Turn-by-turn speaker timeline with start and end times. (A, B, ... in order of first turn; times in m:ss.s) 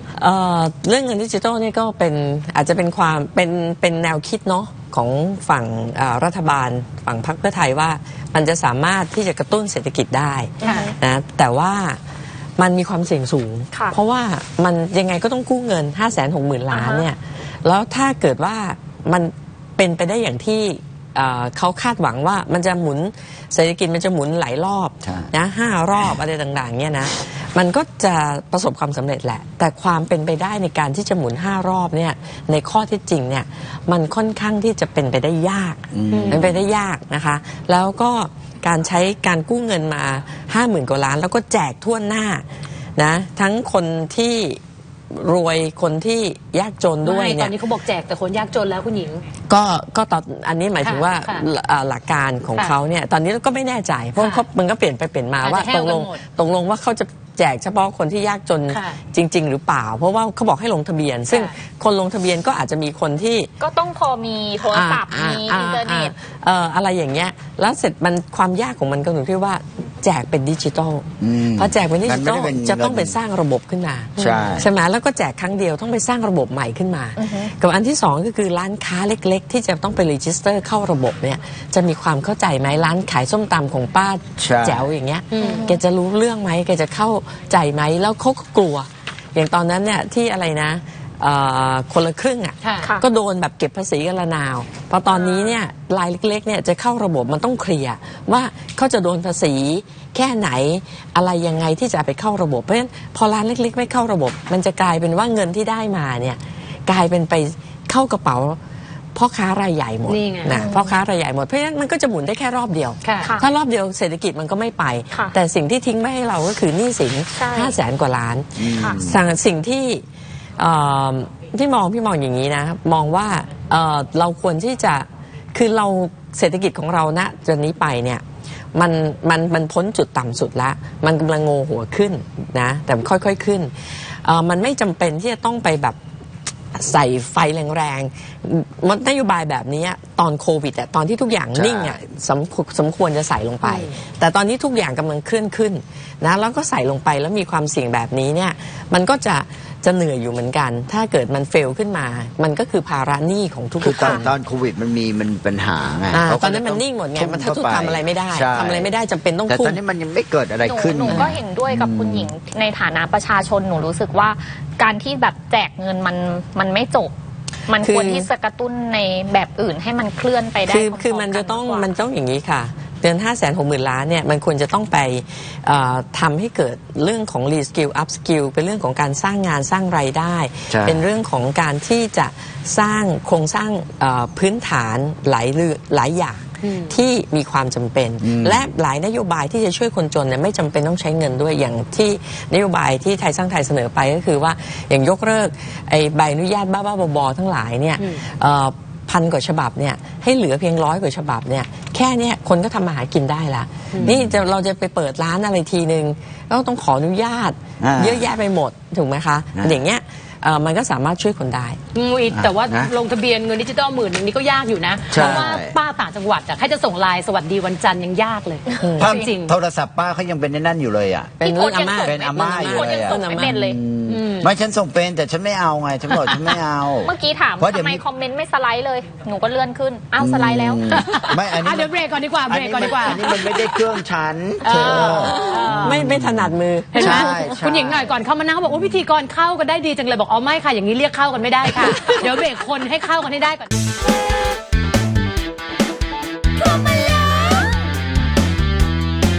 0:00.2-0:12.0 A
0:10.6-0:10.9 B
0:10.6-0:10.9 C
0:12.6-0:42.4 A
0:16.7-0:17.1 C
0:25.0-0:25.3 D
0:35.9-0:36.5 D
0:36.1-0:36.4 B
0:43.0-0:44.6 A
0:45.1-0:47.5 A
0:47.0-0:49.2 B
0:49.5-1:03.5 A
0:50.8-0:51.4 B
0:54.2-0:54.4 B
0:55.4-0:56.2 B
0:58.7-0:59.0 B
1:01.3-1:01.5 B
1:03.6-1:06.1 C
1:04.6-1:48.6 A
1:11.2-1:13.2 D
1:14.2-1:14.5 B
1:14.2-1:14.7 D
1:17.2-1:17.5 C
1:24.4-1:24.9 D
1:25.3-1:25.7 B
1:25.4-1:25.8 C
1:32.6-1:32.9 B
1:35.1-1:35.6 B
1:49.1-2:00.0 A
1:50.1-1:50.5 B
1:50.5-1:50.9 C
1:53.0-1:53.3 B
1:53.2-1:53.5 C
1:57.4-1:57.7 C
1:58.6-1:59.2 D
1:58.7-1:59.0 C
2:00.6-2:08.2 A
2:08.7-2:16.0 A
2:16.7-2:34.3 A
2:21.5-2:22.0 D
2:23.6-2:23.9 B
2:33.8-2:38.9 D
2:36.1-2:39.8 A
2:39.5-2:42.3 D
2:40.6-2:47.1 C
2:41.1-2:41.4 A
2:47.7-2:51.9 C
2:47.8-2:48.3 A
2:50.6-3:31.8 A
3:00.7-3:01.0 D
3:06.6-3:07.0 B
3:08.2-3:08.6 D
3:18.0-3:18.2 B
3:24.0-3:24.4 D
3:27.8-3:28.3 D
3:31.9-3:39.5 B
3:32.3-3:32.9 D
3:35.1-3:35.8 D
3:35.1-3:35.5 A
3:38.8-3:39.1 A
3:39.0-3:41.4 D
3:41.4-3:43.8 C
3:41.4-3:43.6 A
3:41.9-3:48.0 D
3:44.1-3:44.5 B
3:47.0-3:51.2 C
3:50.2-3:51.9 D
3:50.9-3:53.8 B
3:52.5-3:58.0 D
3:54.6-3:56.0 B
3:54.9-3:57.4 A
3:56.9-4:03.7 B
4:06.7-4:07.4 B